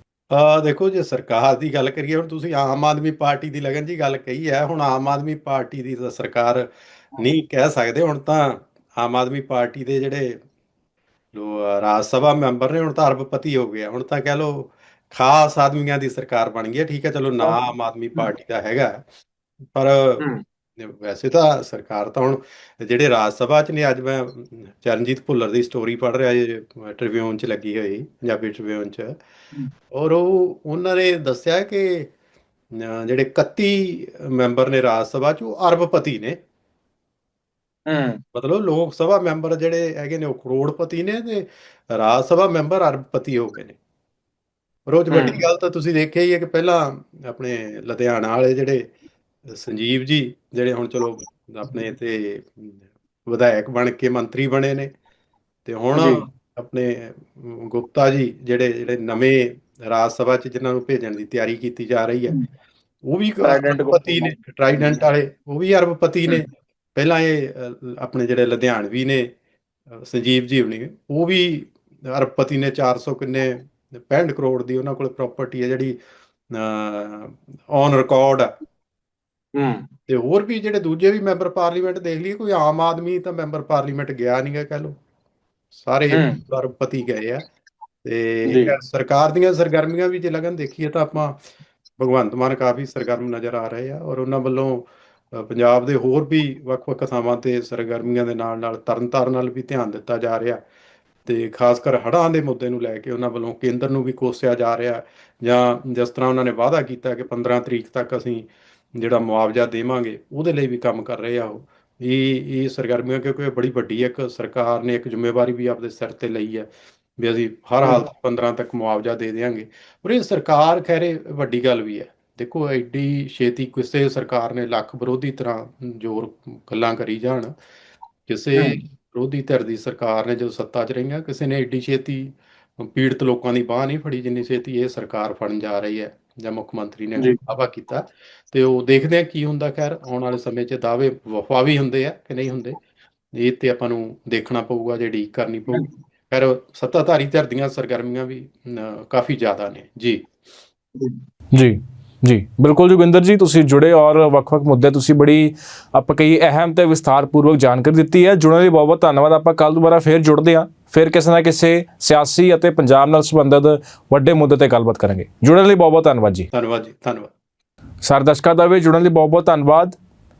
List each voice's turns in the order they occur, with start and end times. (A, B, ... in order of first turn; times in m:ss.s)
0:00.3-0:10.4 A
0:11.3-0:19.0 A
0:19.7-0:20.2 A
0:20.8-0:29.2 A
0:29.9-0:32.1 A
0:32.7-0:36.4 A
0:37.9-0:38.2 B
0:38.3-0:43.8 A
0:44.9-0:48.8 A
0:45.1-0:45.4 B
0:49.5-0:54.9 A
0:55.7-1:02.4 A
0:55.9-0:56.2 B
1:03.1-1:09.3 A
1:03.4-1:04.9 B
1:09.9-1:16.0 A
1:16.5-1:18.5 A
1:19.6-1:19.9 B
1:20.1-1:25.0 A
1:25.8-1:27.4 A
1:26.1-1:26.4 B
1:28.0-1:31.4 A
1:28.5-1:28.7 B
1:32.0-1:40.6 A
1:41.2-2:07.5 A
2:08.3-2:22.8 A
2:23.3-2:30.3 A
2:31.5-2:46.5 C
2:46.5-2:47.3 A
2:48.0-2:50.0 C